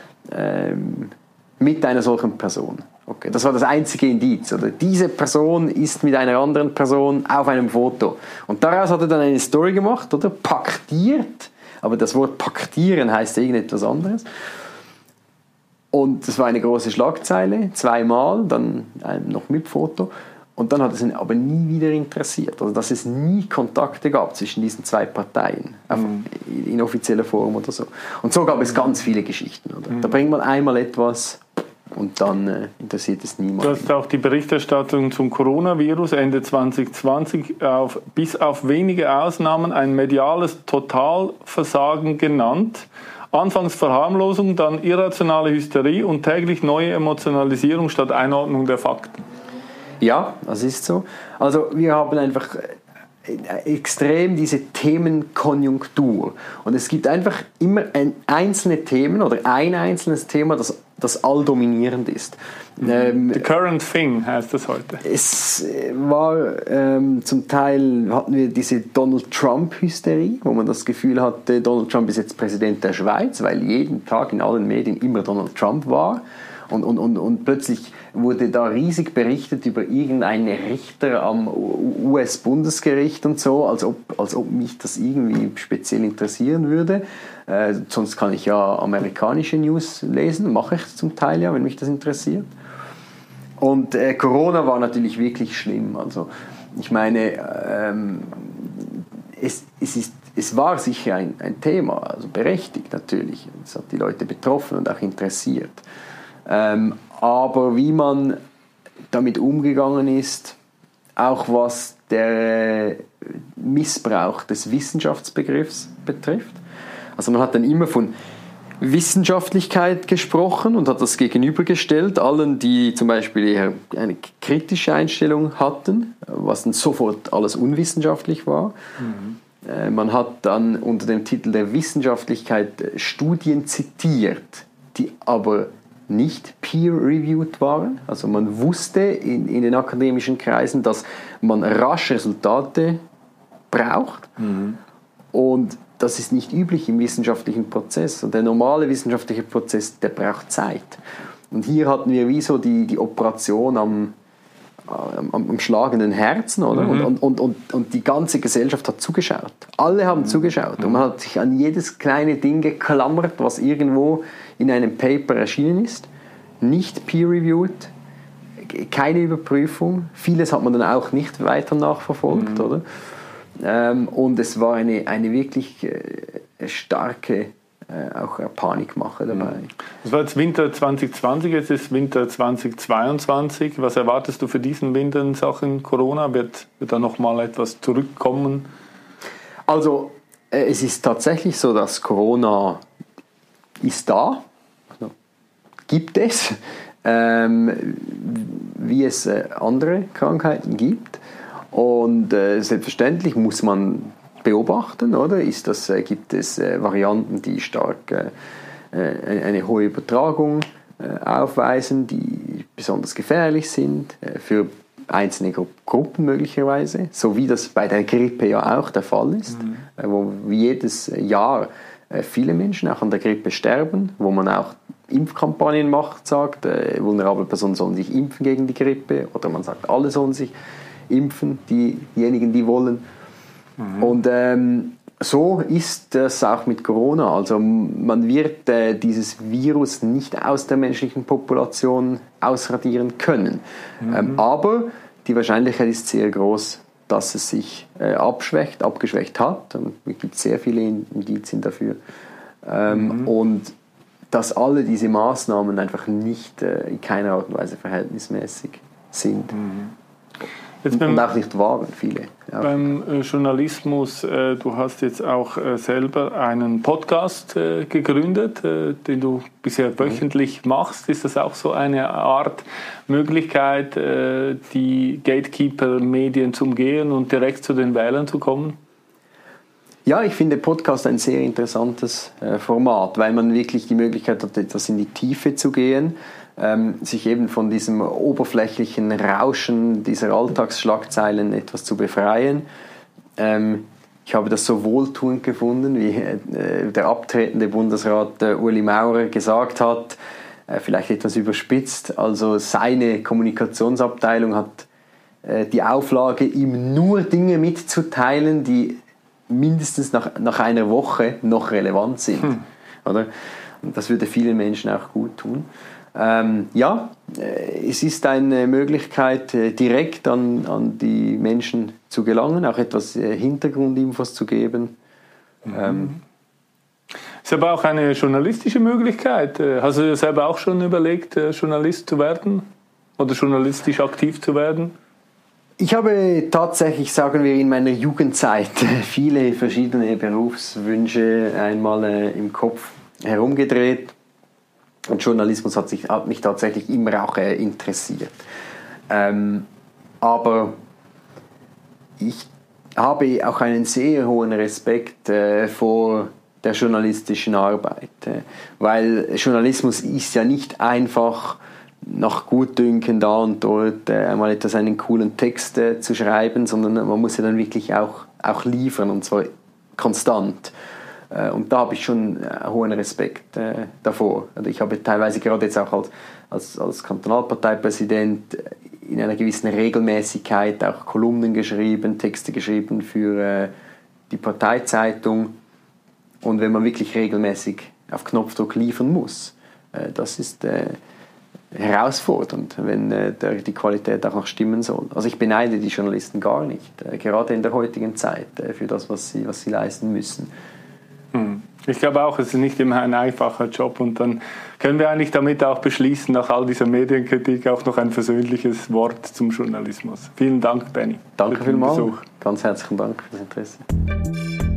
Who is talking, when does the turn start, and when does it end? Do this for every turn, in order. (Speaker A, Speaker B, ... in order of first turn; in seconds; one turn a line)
Speaker A: 0.3-14.2
Speaker A: 15.9-33.9
Speaker B: 33.6-49.2
Speaker A: 50.0-63.4
Speaker B: 62.9-65.0
Speaker A: 65.0-92.5
Speaker A: 93.6-105.8
Speaker A: 106.5-108.4
Speaker A: 109.1-110.5
Speaker A: 111.2-116.6
Speaker A: 117.2-118.1
Speaker A: 118.8-128.7
Speaker B: 129.0-129.3
Speaker A: 129.6-143.0
Speaker A: 143.7-144.4
Speaker A: 145.3-151.0
Speaker A: 151.5-154.1
Speaker A: 154.8-166.1
Speaker B: 156.8-157.1
Speaker A: 166.6-167.9
Speaker A: 168.6-172.8
Speaker B: 172.3-172.7
Speaker A: 173.6-179.7
Speaker B: 180.0-188.7
Speaker A: 189.7-192.8
Speaker A: 193.8-194.4
Speaker A: 195.9-201.2
Speaker A: 201.7-208.3
Speaker A: 208.9-230.5
Speaker A: 231.1-233.0
Speaker A: 233.9-252.0
Speaker A: 252.6-253.7
Speaker A: 254.3-259.6
Speaker B: 259.6-259.9
Speaker B: 260.8-261.3
Speaker A: 260.9-262.7
Speaker B: 262.6-278.8
Speaker A: 280.1-292.6
Speaker A: 293.4-300.2
Speaker A: 300.7-304.9
Speaker A: 305.4-309.0
Speaker A: 309.5-313.3
Speaker A: 313.8-324.9
Speaker A: 325.7-326.2
Speaker B: 325.7-326.2
Speaker B: 327.4-332.6
Speaker B: 333.2-334.9
Speaker A: 335.8-344.1
Speaker A: 345.1-348.4
Speaker A: 349.1-349.7
Speaker A: 350.2-350.7
Speaker A: 352.2-370.7
Speaker A: 371.3-383.7
Speaker A: 384.3-385.5
Speaker A: 386.4-391.0
Speaker A: 391.7-400.5
Speaker B: 401.3-412.1
Speaker A: 411.4-413.8